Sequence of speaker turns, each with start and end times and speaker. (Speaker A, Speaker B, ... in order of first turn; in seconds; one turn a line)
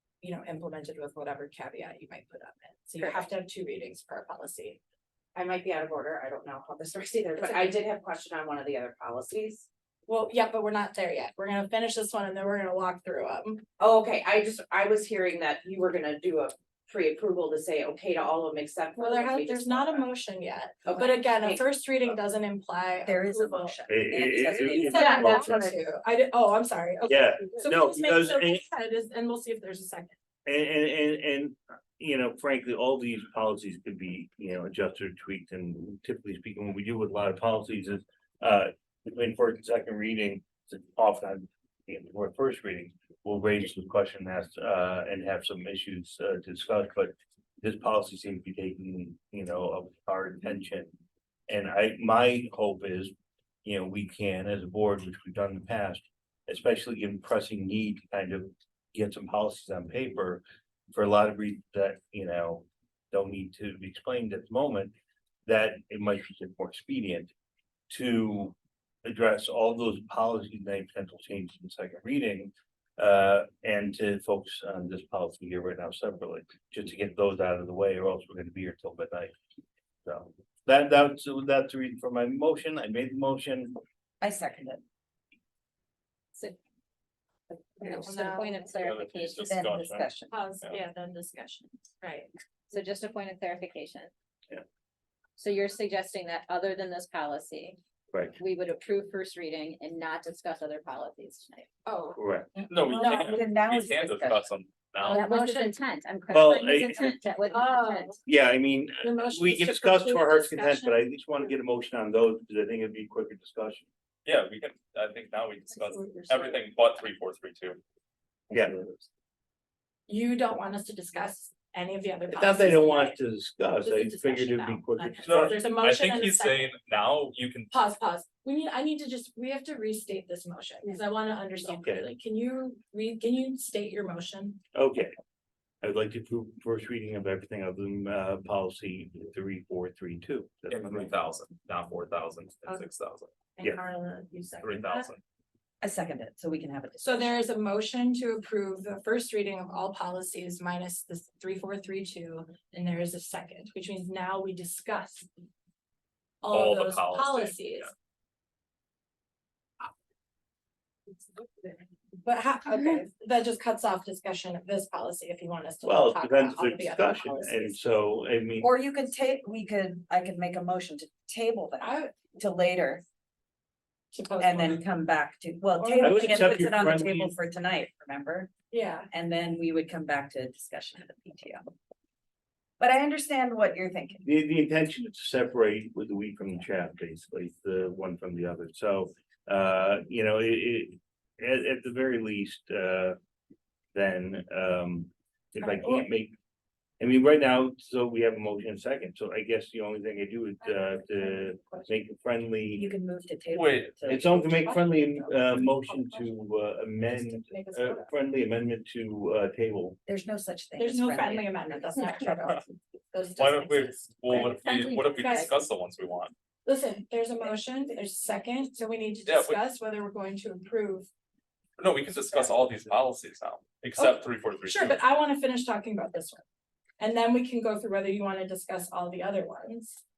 Speaker A: 0.2-4.8
Speaker B: 3.0-3.3
Speaker C: 5.4-7.2
Speaker D: 5.6-9.6
Speaker A: 7.4-7.8
Speaker C: 8.0-9.6
Speaker A: 10.1-13.7
Speaker D: 13.8-20.0
Speaker C: 14.0-16.3
Speaker C: 17.5-18.8
Speaker A: 19.0-30.1
Speaker D: 20.9-21.6
Speaker D: 23.1-25.8
Speaker E: 23.9-25.6
Speaker C: 24.4-25.6
Speaker E: 27.1-28.6
Speaker E: 30.5-50.9
Speaker E: 51.5-53.1
Speaker E: 53.6-64.9
Speaker E: 65.5-67.3
Speaker E: 67.9-79.3
Speaker E: 80.0-83.8
Speaker D: 84.2-84.8
Speaker A: 87.8-88.7
Speaker B: 87.8-89.6
Speaker F: 88.8-90.8
Speaker D: 89.5-90.3
Speaker A: 90.3-92.3
Speaker B: 92.7-94.1
Speaker B: 95.4-97.8
Speaker B: 98.4-101.7
Speaker A: 101.9-102.2
Speaker E: 102.2-102.5
Speaker F: 102.7-105.2
Speaker D: 102.8-104.4
Speaker A: 102.9-103.6
Speaker A: 105.0-105.8
Speaker B: 105.1-108.2
Speaker E: 106.3-107.2
Speaker A: 107.5-108.2
Speaker E: 108.3-113.9
Speaker A: 109.0-111.0
Speaker F: 114.2-117.8
Speaker A: 116.0-116.5
Speaker E: 118.5-118.8
Speaker A: 120.1-123.2
Speaker E: 122.3-125.6
Speaker A: 123.8-126.7
Speaker F: 125.2-127.7
Speaker A: 127.7-134.6
Speaker E: 131.7-132.1
Speaker E: 134.7-135.2
Speaker E: 135.8-141.1
Speaker F: 140.7-143.3
Speaker A: 143.6-145.1
Speaker F: 144.6-145.2
Speaker D: 145.8-147.4
Speaker A: 147.0-155.3
Speaker A: 156.4-157.9
Speaker F: 156.5-157.9
Speaker A: 161.4-167.8
Speaker E: 165.8-168.7
Speaker D: 168.6-173.0
Speaker A: 171.8-172.3
Speaker A: 174.1-174.8
Speaker D: 174.4-178.5
Speaker A: 175.8-176.5
Speaker C: 175.8-176.6
Speaker E: 176.0-177.3
Speaker A: 178.7-179.1
Speaker D: 179.1-181.6
Speaker D: 182.8-184.2
Speaker E: 184.2-193.2
Speaker E: 193.9-196.3
Speaker A: 195.6-196.0
Speaker E: 197.0-202.9
Speaker A: 200.6-201.9
Speaker D: 202.8-204.3
Speaker F: 203.5-204.1
Speaker E: 204.1-210.0
Speaker A: 204.5-206.4
Speaker A: 207.1-208.2
Speaker D: 210.1-212.3
Speaker A: 210.8-214.6
Speaker C: 212.0-212.6
Speaker F: 213.4-216.3
Speaker B: 214.4-215.5
Speaker A: 215.2-215.6
Speaker A: 216.7-221.1
Speaker F: 219.3-219.6
Speaker F: 221.8-225.0
Speaker A: 223.9-226.4
Speaker A: 227.0-230.0